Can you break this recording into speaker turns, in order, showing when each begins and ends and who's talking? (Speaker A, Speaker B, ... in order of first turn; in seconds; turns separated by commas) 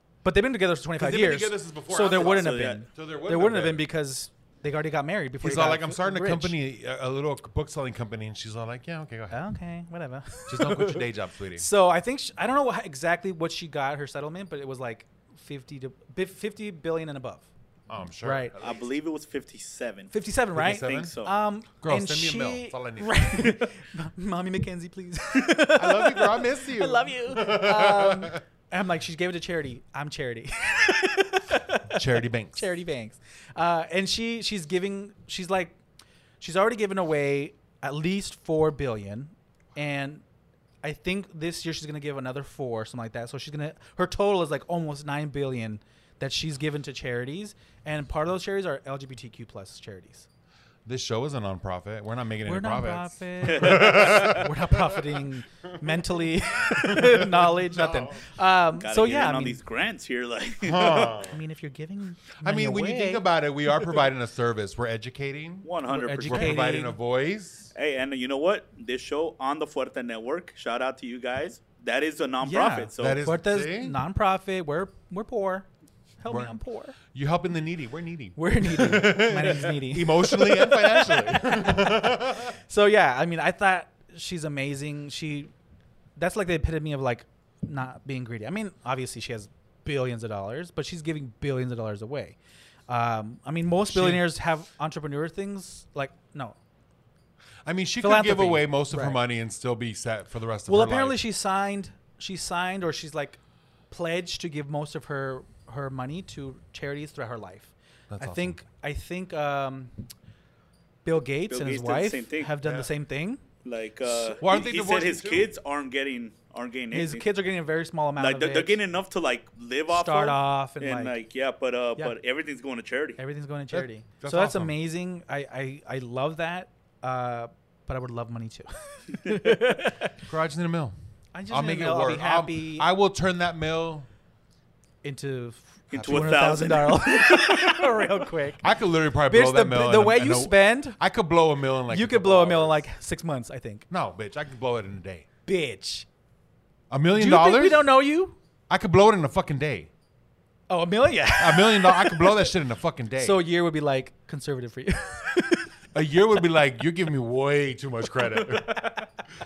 Speaker A: 0.2-6.5, Speaker B: 0.9-3.9, Speaker C: 2.0-2.8, Speaker B: 5.4-9.4, Speaker A: 9.3-17.5, Speaker B: 10.5-11.7, Speaker B: 17.9-18.9, Speaker A: 18.2-18.5, Speaker C: 18.6-20.1, Speaker A: 20.1-35.8, Speaker B: 20.6-21.1, Speaker C: 20.7-21.3, Speaker B: 21.8-23.5, Speaker B: 25.7-28.4, Speaker B: 31.9-32.7, Speaker A: 36.4-40.2, Speaker A: 40.8-50.3, Speaker B: 50.8-55.2, Speaker A: 52.4-59.6, Speaker C: 53.5-54.4, Speaker B: 56.6-58.3, Speaker C: 58.7-61.2, Speaker B: 60.6-61.4, Speaker A: 61.2-63.2, Speaker B: 62.4-67.7, Speaker C: 65.6-66.6, Speaker A: 65.9-67.0, Speaker C: 67.7-73.3, Speaker A: 72.4-75.7, Speaker B: 73.0-74.0, Speaker A: 76.2-77.0, Speaker B: 76.3-82.6, Speaker A: 78.3-85.5, Speaker A: 86.2-92.4, Speaker A: 92.9-96.6, Speaker B: 93.9-94.3, Speaker B: 97.6-101.2, Speaker A: 98.0-99.2, Speaker A: 100.7-103.4, Speaker A: 103.9-110.0, Speaker B: 108.1-108.6, Speaker A: 111.0-113.4, Speaker C: 111.5-112.5, Speaker B: 112.6-112.9, Speaker C: 113.6-117.2, Speaker B: 114.4-115.5, Speaker A: 116.9-118.8, Speaker C: 118.2-123.2, Speaker A: 119.9-121.2, Speaker A: 123.2-130.2, Speaker B: 123.7-124.8, Speaker B: 130.2-130.9, Speaker A: 131.3-132.9, Speaker B: 131.5-134.1, Speaker A: 135.0-138.7, Speaker C: 135.9-138.0, Speaker B: 138.6-142.8, Speaker A: 139.2-141.0, Speaker A: 141.9-143.8, Speaker B: 143.9-145.2, Speaker A: 145.4-146.1, Speaker B: 146.9-147.8, Speaker A: 147.1-148.4, Speaker B: 148.7-149.9, Speaker A: 150.7-152.5, Speaker B: 151.4-153.4, Speaker A: 153.2-155.7, Speaker B: 155.9-158.9, Speaker A: 158.3-159.1